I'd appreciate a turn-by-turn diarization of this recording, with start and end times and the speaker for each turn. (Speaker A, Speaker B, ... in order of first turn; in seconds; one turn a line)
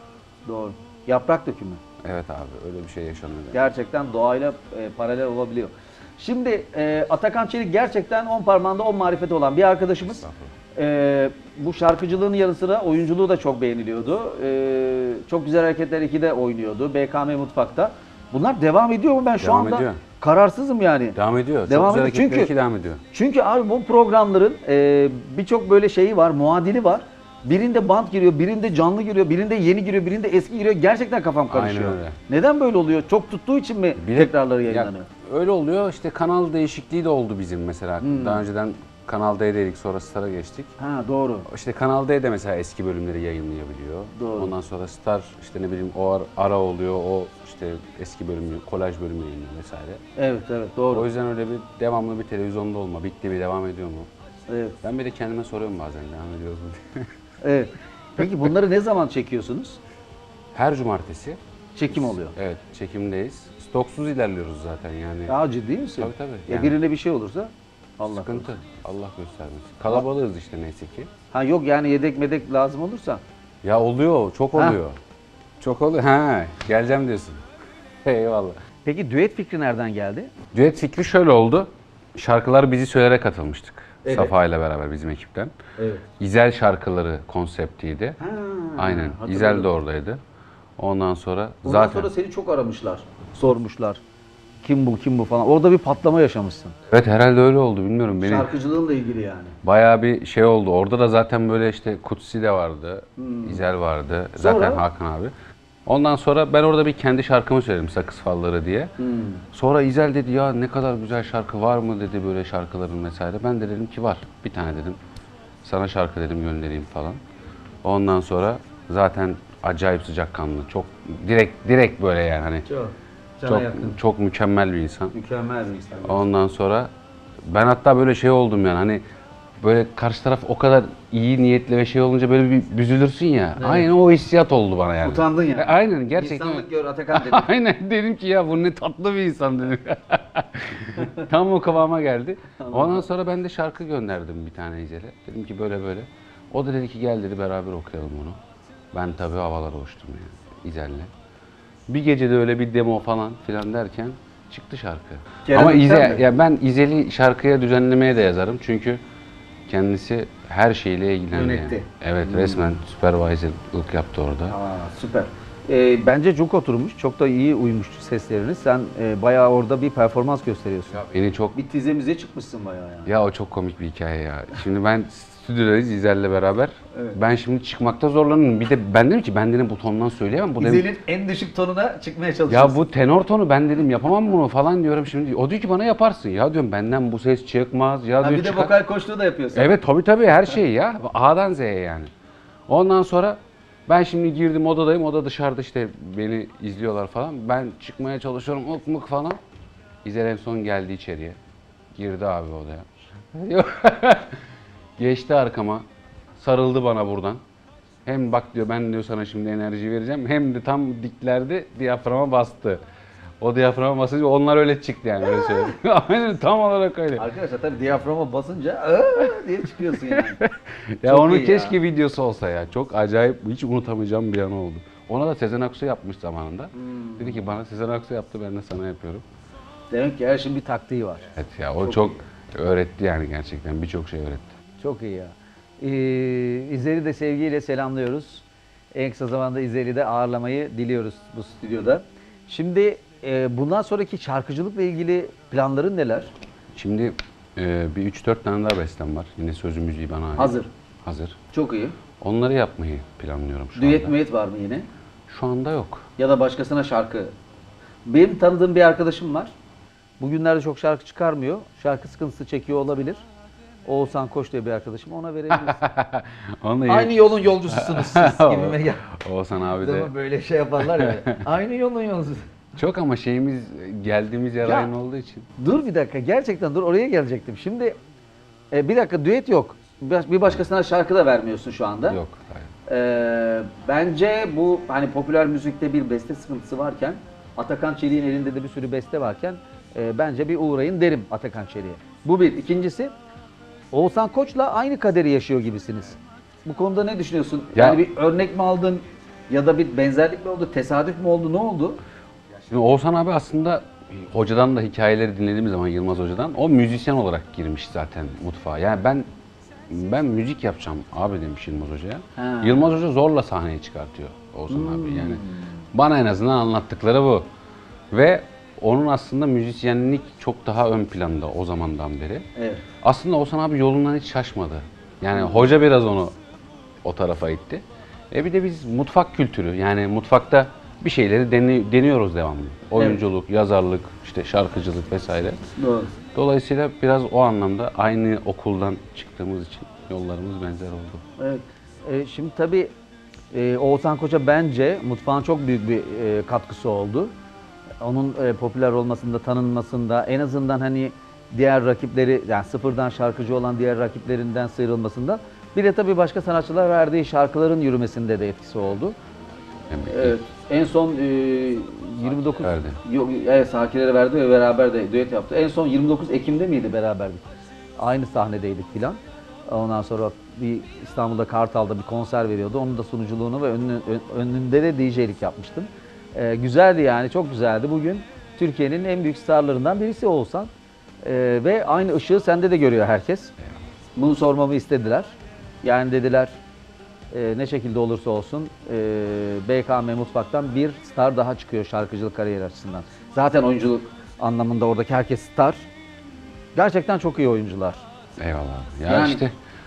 Speaker A: 0.5-1.8
Speaker B: 2.0-3.7
Speaker A: 3.5-22.5
Speaker B: 10.2-10.5
Speaker B: 19.4-20.0
Speaker B: 21.1-23.0
Speaker A: 23.1-35.1
Speaker B: 31.5-32.2
Speaker B: 34.0-40.7
Speaker A: 38.0-38.4
Speaker A: 40.8-41.5
Speaker B: 41.5-50.0
Speaker A: 44.1-44.5
Speaker A: 50.2-51.1
Speaker B: 50.9-54.1
Speaker A: 54.5-54.8
Speaker B: 54.8-57.1
Speaker A: 57.4-59.8
Speaker B: 60.5-61.4
Speaker A: 61.7-62.3
Speaker B: 62.3-65.3
Speaker A: 65.3-68.5
Speaker B: 66.0-66.8
Speaker B: 68.1-71.1
Speaker A: 71.3-73.2
Speaker B: 73.6-75.0
Speaker B: 75.6-77.4
Speaker B: 78.0-78.6
Speaker A: 78.8-80.3
Speaker B: 80.5-85.5
Speaker A: 84.0-84.3
Speaker A: 85.8-86.0
Speaker B: 86.2-88.2
Speaker A: 88.2-89.7
Speaker B: 88.8-90.2
Speaker B: 90.8-92.1
Speaker A: 91.6-94.0
Speaker A: 94.6-96.8
Speaker B: 96.9-98.5
Speaker A: 98.2-99.5
Speaker B: 99.6-105.3
Speaker A: 103.2-103.6
Speaker A: 104.4-104.8
Speaker B: 105.8-108.9
Speaker A: 109.0-109.4
Speaker B: 109.5-115.0
Speaker B: 115.6-117.2
Speaker B: 117.8-122.7
Speaker A: 122.7-124.0
Speaker B: 123.5-125.1
Speaker A: 125.1-126.2
Speaker B: 126.0-126.9
Speaker B: 127.5-129.0
Speaker B: 129.6-148.4
Speaker A: 133.6-133.9
Speaker A: 135.0-137.5
Speaker A: 141.0-141.2
Speaker A: 142.6-143.1
Speaker B: 148.9-151.1
Speaker B: 151.9-159.0
Speaker A: 155.4-156.2
Speaker B: 159.7-164.5
Speaker A: 161.3-162.7
Speaker A: 164.5-171.0
Speaker B: 170.9-171.6
Speaker A: 171.5-173.1
Speaker B: 173.1-180.9
Speaker A: 180.6-182.8
Speaker B: 182.5-188.7
Speaker A: 188.2-189.7
Speaker B: 189.5-192.1
Speaker B: 192.7-199.4
Speaker B: 200.0-201.4
Speaker B: 201.9-204.4
Speaker B: 205.0-205.8
Speaker B: 206.4-207.4
Speaker B: 208.1-212.8
Speaker B: 213.4-217.2
Speaker A: 217.2-220.4
Speaker B: 220.1-229.2
Speaker A: 221.0-221.8
Speaker A: 226.7-227.4
Speaker A: 229.9-231.3
Speaker B: 231.3-234.6
Speaker A: 231.8-232.2
Speaker A: 234.8-246.3
Speaker B: 246.7-251.4
Speaker A: 250.4-250.7
Speaker A: 251.5-252.0
Speaker B: 252.2-254.1
Speaker A: 253.8-254.9
Speaker B: 255.3-256.1
Speaker A: 256.2-257.3
Speaker A: 258.1-259.5
Speaker A: 260.2-263.3
Speaker A: 263.9-265.8
Speaker B: 265.5-270.1
Speaker A: 266.9-269.0
Speaker A: 269.8-272.5
Speaker B: 270.8-271.4
Speaker B: 272.8-275.5
Speaker A: 274.6-274.9
Speaker A: 275.6-277.9
Speaker A: 278.7-282.2
Speaker B: 282.1-282.7
Speaker A: 282.9-293.1
Speaker A: 293.9-302.0
Speaker B: 297.7-298.0
Speaker B: 302.5-309.2
Speaker B: 309.9-317.5
Speaker A: 312.4-312.8
Speaker A: 314.7-315.8
Speaker B: 318.1-322.4
Speaker A: 322.6-322.8
Speaker B: 323.0-326.3
Speaker A: 325.4-325.6
Speaker B: 327.0-335.6
Speaker A: 335.8-336.1
Speaker B: 336.3-341.2
Speaker A: 341.4-342.9
Speaker A: 343.5-347.3
Speaker A: 348.0-359.1
Speaker B: 359.9-360.4
Speaker A: 360.1-367.4
Speaker B: 362.6-363.0
Speaker A: 368.0-380.7
Speaker A: 381.2-383.5
Speaker A: 384.1-386.6
Speaker A: 387.3-395.9
Speaker A: 396.8-398.0
Speaker B: 398.4-399.5
Speaker A: 399.1-399.4